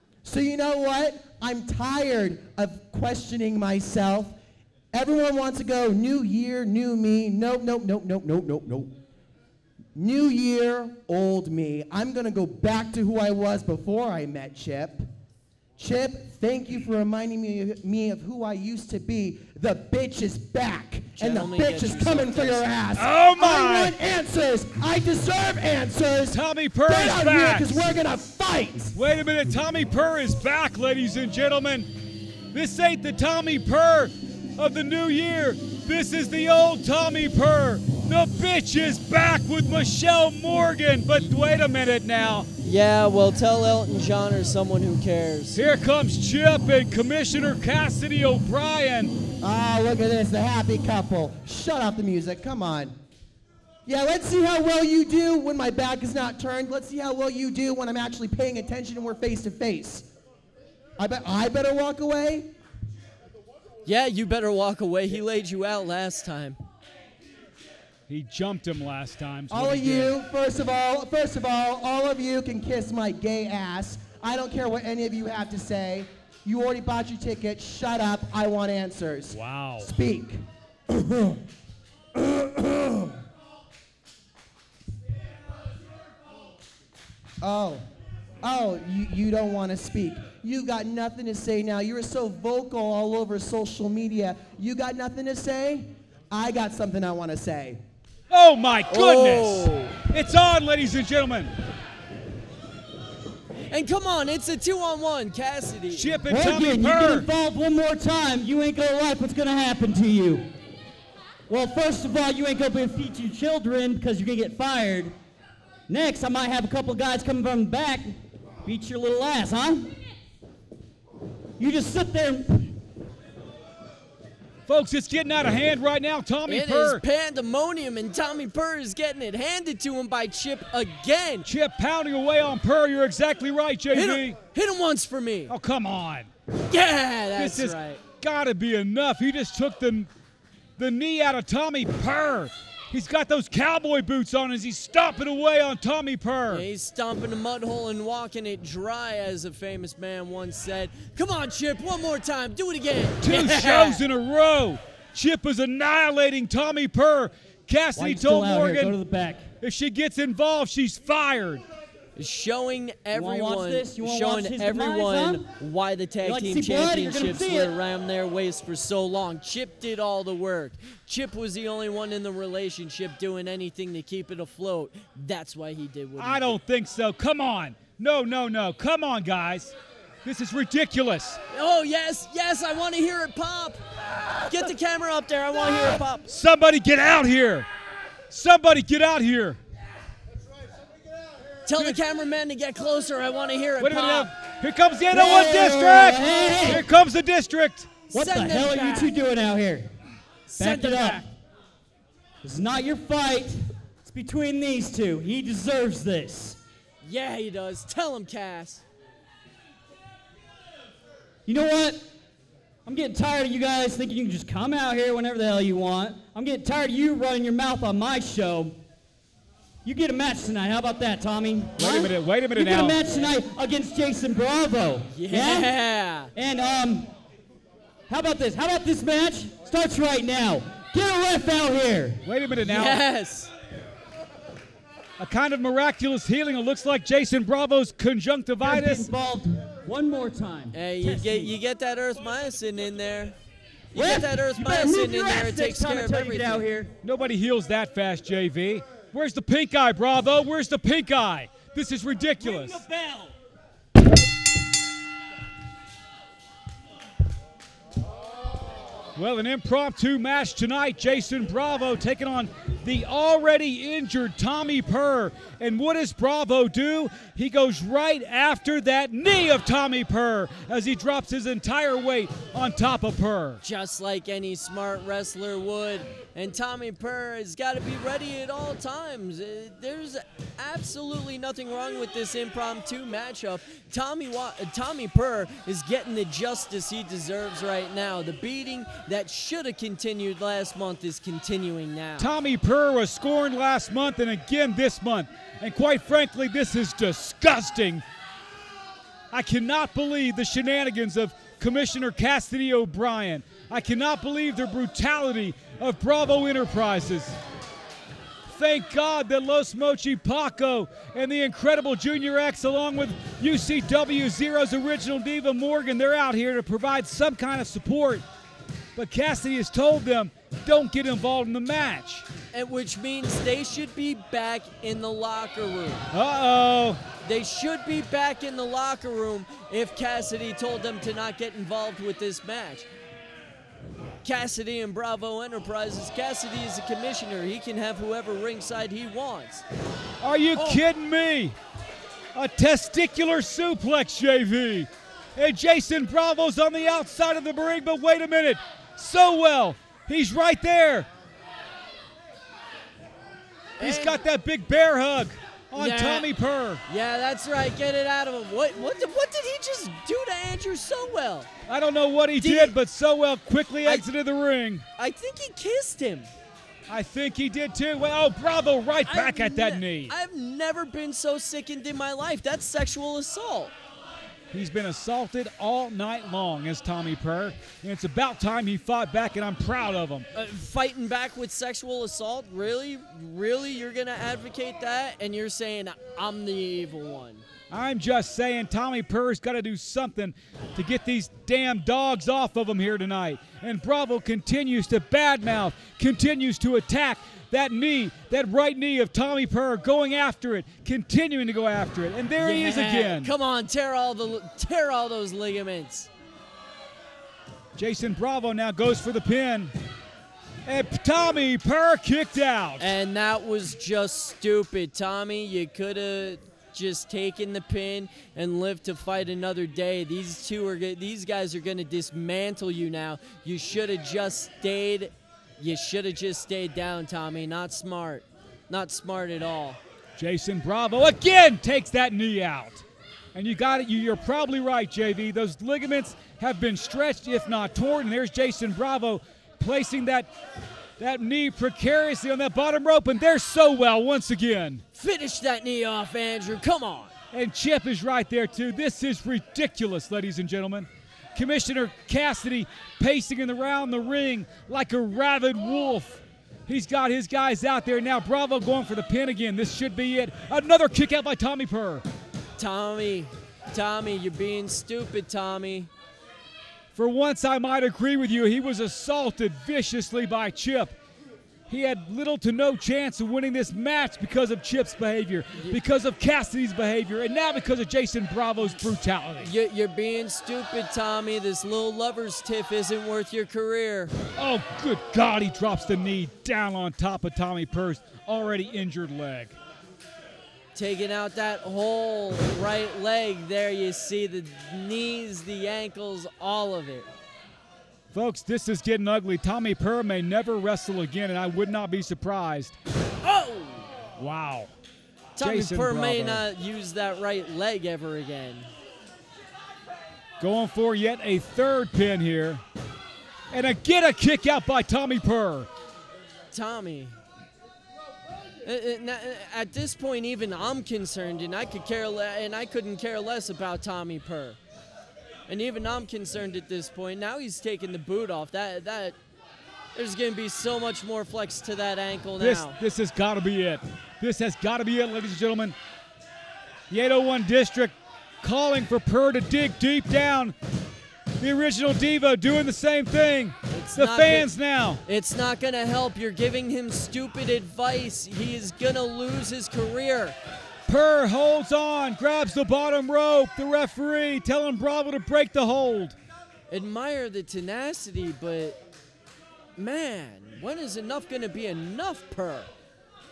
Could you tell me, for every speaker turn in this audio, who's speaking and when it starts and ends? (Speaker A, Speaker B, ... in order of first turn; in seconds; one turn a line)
Speaker A: 0.2-4.3
Speaker A: 4.9-8.9
Speaker A: 9.9-15.1
Speaker A: 15.8-29.0
Speaker B: 21.2-22.6
Speaker C: 23.0-23.9
Speaker C: 26.3-27.8
Speaker C: 29.0-31.9
Speaker C: 32.5-42.5
Speaker B: 42.6-45.6
Speaker C: 45.5-49.1
Speaker A: 49.4-52.9
Speaker A: 53.9-60.1
Speaker A: 61.0-62.5
Speaker B: 63.9-66.6
Speaker C: 68.1-70.2
Speaker A: 69.5-81.4
Speaker C: 79.3-79.9
Speaker A: 82.2-83.1
Speaker A: 87.4-87.8
Speaker A: 88.4-97.8
Speaker C: 98.3-101.5
Speaker B: 98.9-100.0
Speaker B: 103.7-106.2
Speaker C: 105.9-107.3
Speaker D: 106.3-110.5
Speaker D: 111.5-115.2
Speaker D: 115.9-120.0
Speaker D: 121.6-122.7
Speaker C: 124.7-127.0
Speaker B: 126.5-131.5
Speaker C: 131.4-134.4
Speaker B: 133.9-135.5
Speaker C: 135.5-136.3
Speaker B: 136.7-138.0
Speaker C: 137.4-140.1
Speaker C: 140.8-146.7
Speaker B: 146.5-154.0
Speaker C: 153.2-159.0
Speaker D: 158.0-159.5
Speaker C: 159.6-161.6
Speaker B: 162.2-176.6
Speaker D: 163.1-165.4
Speaker D: 166.2-167.7
Speaker C: 176.2-181.4
Speaker B: 181.5-183.8
Speaker B: 184.5-186.3
Speaker C: 186.3-187.7
Speaker C: 188.3-189.6
Speaker B: 191.7-194.3
Speaker C: 193.8-198.0
Speaker D: 195.1-196.8
Speaker B: 196.2-196.8
Speaker B: 198.1-199.1
Speaker D: 198.1-199.9
Speaker B: 200.5-201.2
Speaker D: 200.6-201.2
Speaker D: 202.4-206.6
Speaker B: 207.0-208.8
Speaker D: 211.5-212.0
Speaker D: 212.9-218.8
Speaker D: 219.8-225.7
Speaker C: 221.8-223.0
Speaker B: 225.1-226.3
Speaker D: 226.3-227.1
Speaker D: 228.1-232.2
Speaker C: 232.2-233.0
Speaker B: 232.7-233.5
Speaker C: 235.2-239.1
Speaker D: 238.6-241.5
Speaker B: 240.7-243.4
Speaker B: 243.9-246.6
Speaker D: 243.9-246.9
Speaker C: 247.0-253.2
Speaker C: 259.2-273.6
Speaker B: 273.6-292.3
Speaker C: 292.2-298.0
Speaker C: 299.3-307.4
Speaker C: 308.5-318.2
Speaker C: 319.0-322.3
Speaker B: 322.5-326.1
Speaker C: 326.1-327.0
Speaker B: 327.2-332.9
Speaker B: 334.2-339.6
Speaker C: 340.2-341.6
Speaker B: 340.6-340.8
Speaker C: 342.4-351.1
Speaker B: 353.8-354.2
Speaker C: 353.8-356.8
Speaker B: 355.8-356.3
Speaker B: 356.9-361.5
Speaker C: 361.7-364.9
Speaker B: 362.4-362.8
Speaker B: 365.0-366.3
Speaker C: 366.9-370.1
Speaker B: 369.1-373.7
Speaker C: 374.5-380.3
Speaker B: 380.4-387.4
Speaker C: 387.7-403.3
Speaker B: 402.4-406.1
Speaker C: 407.8-409.7
Speaker C: 410.7-412.9
Speaker B: 412.8-429.8
Speaker C: 430.2-440.3
Speaker C: 441.0-444.8
Speaker B: 445.0-447.1
Speaker C: 447.3-462.1
Speaker B: 462.6-465.9
Speaker C: 466.9-471.0
Speaker C: 471.7-479.5
Speaker B: 479.4-484.1
Speaker C: 484.4-489.6
Speaker B: 490.8-497.1
Speaker C: 498.1-502.8
Speaker B: 503.2-503.9
Speaker C: 504.2-504.7
Speaker B: 505.4-508.7
Speaker C: 505.4-506.4
Speaker C: 510.4-512.6
Speaker C: 513.5-515.7
Speaker B: 516.5-517.1
Speaker B: 518.6-524.6
Speaker B: 525.5-529.2
Speaker B: 530.0-532.8
Speaker C: 532.4-535.8
Speaker C: 536.9-540.5
Speaker C: 541.4-545.0
Speaker B: 543.7-544.5
Speaker B: 545.1-550.4
Speaker C: 550.9-556.2
Speaker B: 556.7-558.8
Speaker B: 559.8-562.7